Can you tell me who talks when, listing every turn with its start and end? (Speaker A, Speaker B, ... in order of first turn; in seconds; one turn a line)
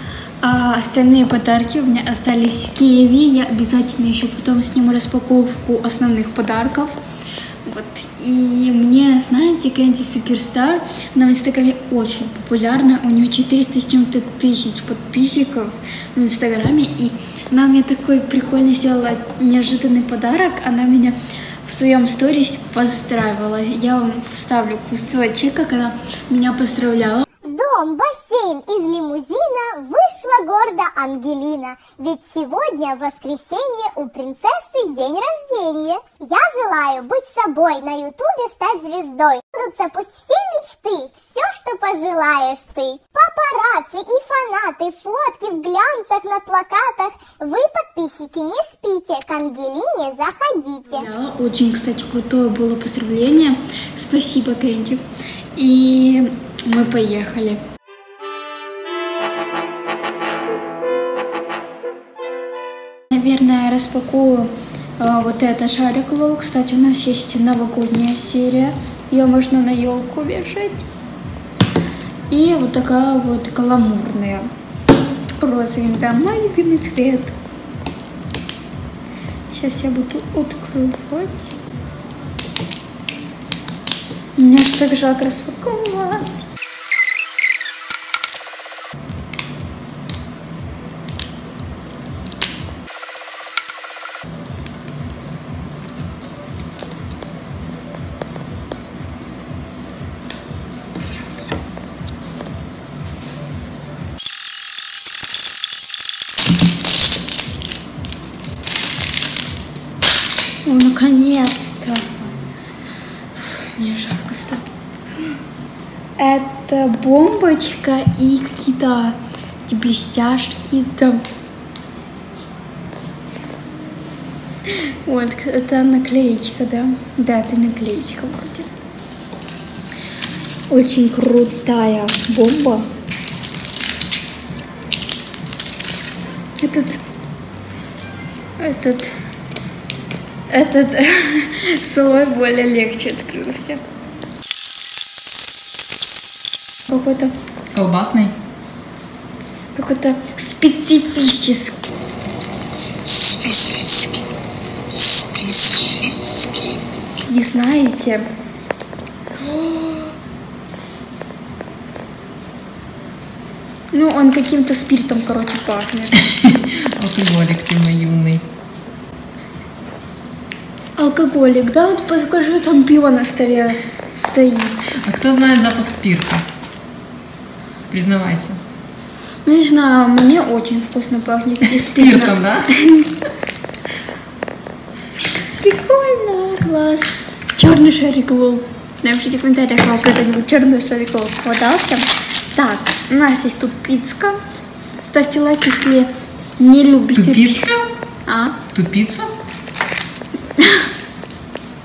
Speaker A: 0.4-7.0
Speaker A: 7.7-27.3
Speaker B: 27.5-51.1
Speaker A: 50.9-55.0
Speaker A: 55.6-57.6
Speaker A: 63.1-70.9
Speaker A: 72.3-74.5
Speaker A: 75.4-77.4
Speaker A: 79.5-81.5
Speaker A: 84.4-86.5
Speaker A: 110.7-112.1
Speaker A: 113.4-114.6
Speaker A: 116.2-121.2
Speaker A: 124.7-128.7
Speaker A: 130.7-132.9
Speaker A: 136.6-137.0
Speaker A: 138.6-139.2
Speaker A: 140.5-143.8
Speaker A: 146.9-147.3
Speaker C: 147.7-148.3
Speaker A: 149.8-151.9
Speaker A: 157.2-158.3
Speaker A: 159.4-160.1
Speaker A: 163.9-166.2
Speaker C: 166.3-168.4
Speaker A: 171.0-174.8
Speaker C: 175.0-176.4
Speaker C: 177.9-178.6
Speaker A: 179.4-183.1
Speaker C: 181.8-182.7
Speaker A: 185.6-194.4
Speaker A: 195.0-197.6
Speaker C: 197.2-197.9
Speaker A: 198.3-198.6
Speaker C: 198.7-199.3
Speaker A: 200.6-200.9